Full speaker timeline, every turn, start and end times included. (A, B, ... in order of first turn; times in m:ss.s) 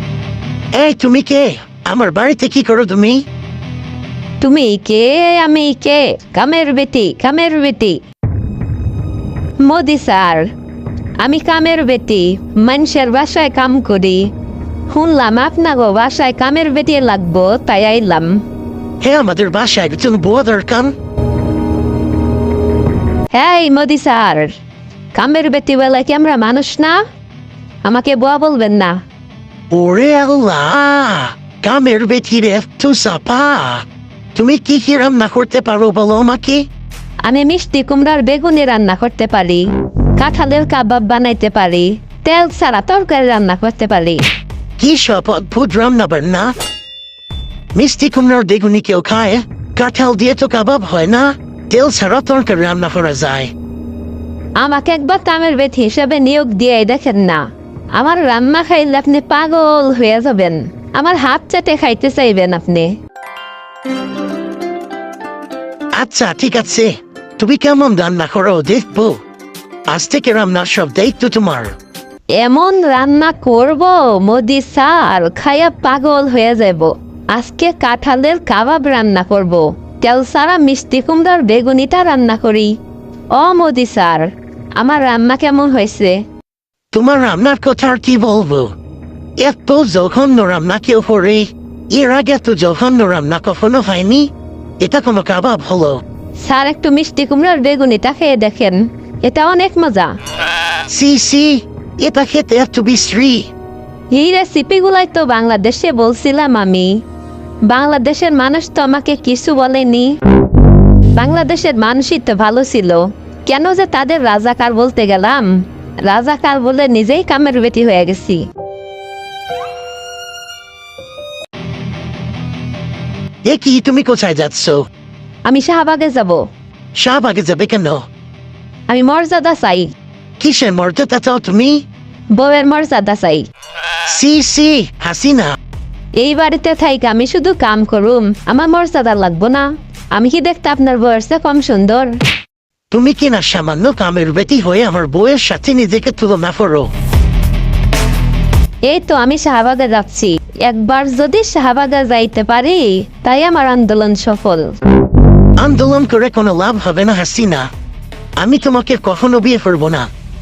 0:00.7-0:03.2 A
0:04.4-0:08.0 B
0:09.6-0:10.5 B
0:11.2-0:14.3 B
0:14.9-0:18.4 B
0:19.0-0:21.0 A
0:23.3-0:24.6 B
0:25.1-0:27.0 B
0:27.8-0:29.0 B
0:29.7-0:36.7 A
0:37.2-0:44.3 B
0:44.8-0:46.6 A
0:47.7-0:53.5 A
0:54.6-1:03.0 B
1:05.9-1:09.2 A
1:09.9-1:11.8 A
1:12.3-1:22.8 B
1:23.3-1:26.2 B
1:26.9-1:28.8 A
1:29.4-1:36.0 A
1:36.3-1:40.2 B
1:40.8-1:43.5 A
1:44.1-1:47.0 B
1:47.6-1:50.2 B
1:51.1-1:58.5 B
2:03.4-2:04.9 A
2:05.4-2:06.5 B
2:06.9-2:08.1 A
2:08.9-2:09.9 B
2:10.4-2:11.8 A
2:12.3-2:13.5 B
2:14.0-2:15.6 A
2:16.1-2:22.2 B
2:22.9-2:26.9 A
2:28.8-2:34.8 B
2:35.6-2:37.7 A
2:38.4-2:40.1 A